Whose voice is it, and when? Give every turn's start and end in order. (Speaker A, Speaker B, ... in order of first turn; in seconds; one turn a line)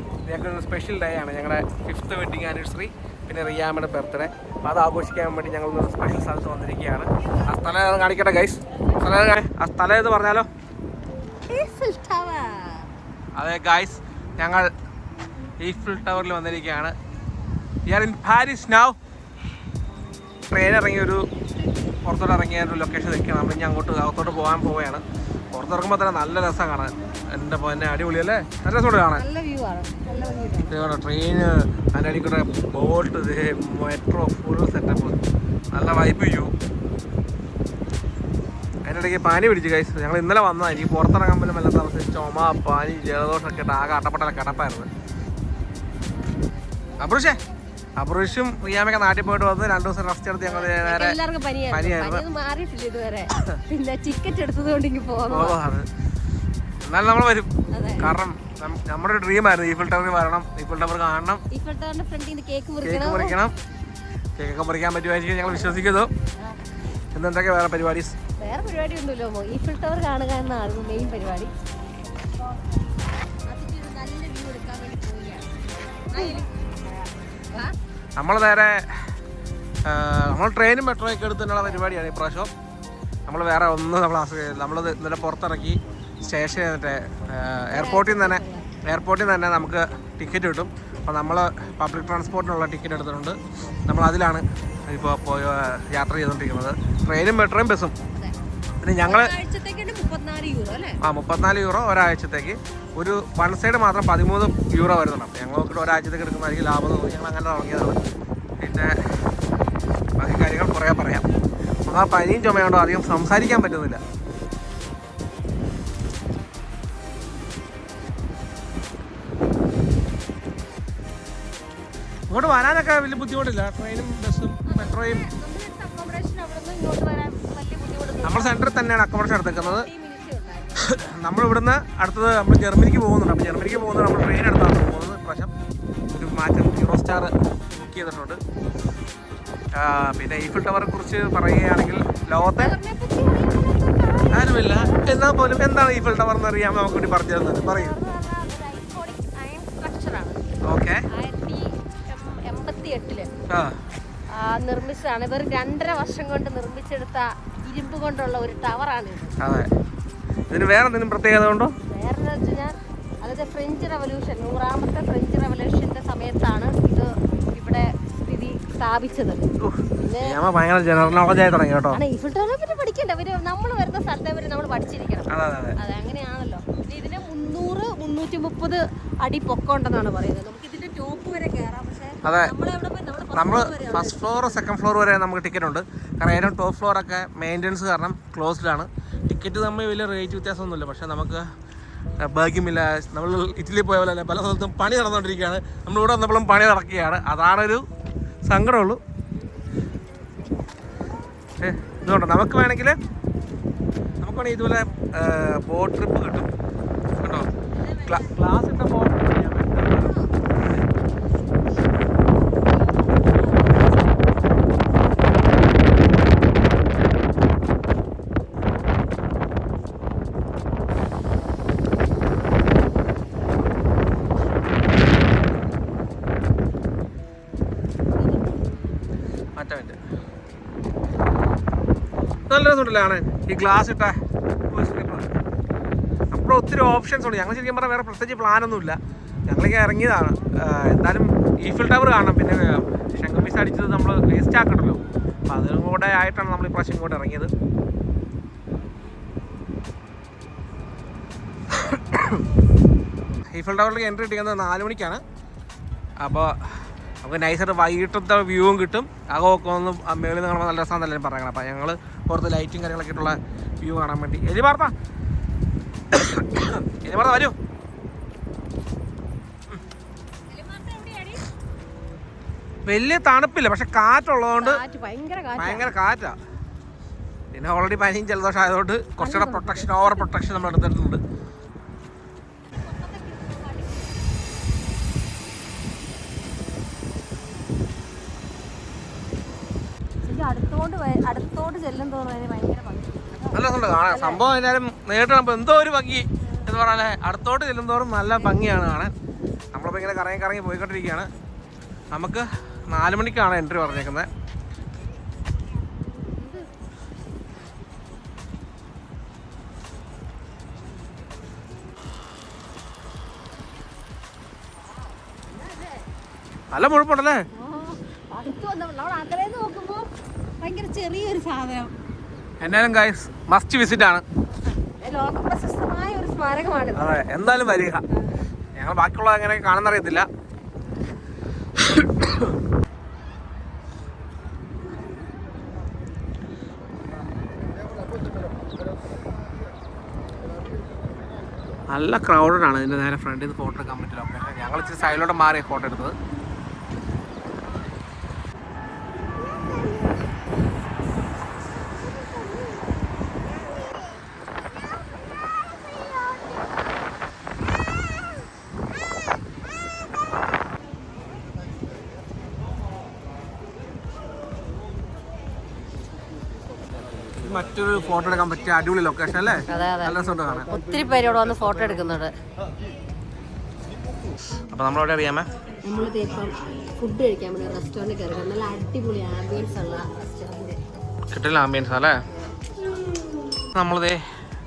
Speaker A: 0.3-10.5
Speaker B: 11.5-12.9
Speaker A: 13.4-14.7
Speaker A: 15.6-16.9
Speaker A: 17.9-19.0
Speaker A: 20.5-21.2
Speaker A: 22.1-29.2
Speaker B: 29.1-30.8
Speaker A: 30.7-35.2
Speaker A: 35.7-36.5
Speaker A: 38.9-44.9
Speaker A: 47.0-47.4
Speaker A: 48.0-51.2
Speaker B: 50.4-55.6
Speaker A: 51.7-52.2
Speaker A: 55.3-55.9
Speaker A: 56.9-61.4
Speaker B: 57.7-58.1
Speaker B: 61.5-63.4
Speaker A: 62.8-63.5
Speaker A: 64.4-66.1
Speaker B: 65.5-65.9
Speaker A: 67.1-68.2
Speaker B: 68.4-71.5
Speaker B: 73.5-75.5
Speaker B: 76.1-77.8
Speaker A: 78.2-79.0
Speaker A: 79.8-82.5
Speaker A: 83.3-97.9
Speaker B: 87.7-88.7
Speaker A: 98.8-99.3
Speaker B: 99.0-101.0
Speaker A: 101.0-108.0
Speaker A: 108.6-109.0
Speaker A: 110.2-111.2
Speaker A: 111.9-114.0
Speaker A: 122.3-125.2
Speaker B: 124.7-128.7
Speaker A: 128.2-129.9
Speaker B: 129.5-130.9
Speaker A: 130.8-135.5
Speaker A: 136.1-138.4
Speaker A: 139.7-142.8
Speaker B: 142.6-145.3
Speaker A: 144.3-147.9
Speaker B: 147.5-150.4
Speaker A: 150.7-151.0
Speaker B: 151.1-153.3
Speaker A: 153.5-153.8
Speaker B: 154.3-159.3
Speaker A: 159.4-159.7
Speaker A: 160.5-161.7
Speaker B: 161.9-169.5
Speaker A: 169.6-172.0
Speaker B: 170.0-170.4
Speaker B: 171.9-184.5
Speaker A: 175.3-175.8
Speaker A: 182.2-182.5
Speaker A: 183.3-191.5
Speaker A: 192.2-197.8
Speaker A: 198.5-199.0
Speaker A: 201.6-203.0
Speaker A: 204.2-206.5
Speaker A: 207.2-207.5
Speaker B: 207.8-208.3
Speaker A: 208.1-210.2
Speaker B: 210.0-210.2
Speaker A: 229.6-230.0
Speaker A: 232.5-234.2
Speaker A: 234.7-235.3
Speaker A: 236.3-239.0
Speaker A: 239.5-247.5
Speaker A: 251.7-252.4
Speaker A: 253.5-255.2
Speaker A: 256.2-256.7
Speaker A: 257.2-264.9
Speaker A: 266.1-267.6
Speaker B: 270.5-271.4
Speaker A: 272.9-274.8
Speaker B: 274.6-275.9
Speaker A: 275.6-276.4
Speaker A: 277.5-281.2
Speaker B: 279.2-280.3
Speaker B: 282.7-284.1
Speaker B: 290.2-294.4
Speaker A: 293.5-299.1
Speaker B: 296.5-296.8
Speaker B: 298.3-298.7
Speaker A: 299.7-301.3
Speaker A: 302.1-304.3
Speaker B: 306.3-306.7
Speaker A: 316.7-317.4
Speaker B: 317.6-320.1
Speaker B: 320.6-321.9
Speaker A: 322.6-324.2
Speaker B: 325.0-327.2
Speaker A: 327.0-328.0
Speaker A: 328.8-330.3
Speaker A: 331.8-332.5
Speaker A: 341.9-346.1
Speaker A: 367.4-370.7
Speaker B: 369.7-372.3
Speaker A: 374.7-375.5
Speaker B: 375.9-380.8
Speaker A: 381.3-382.2
Speaker A: 383.7-384.2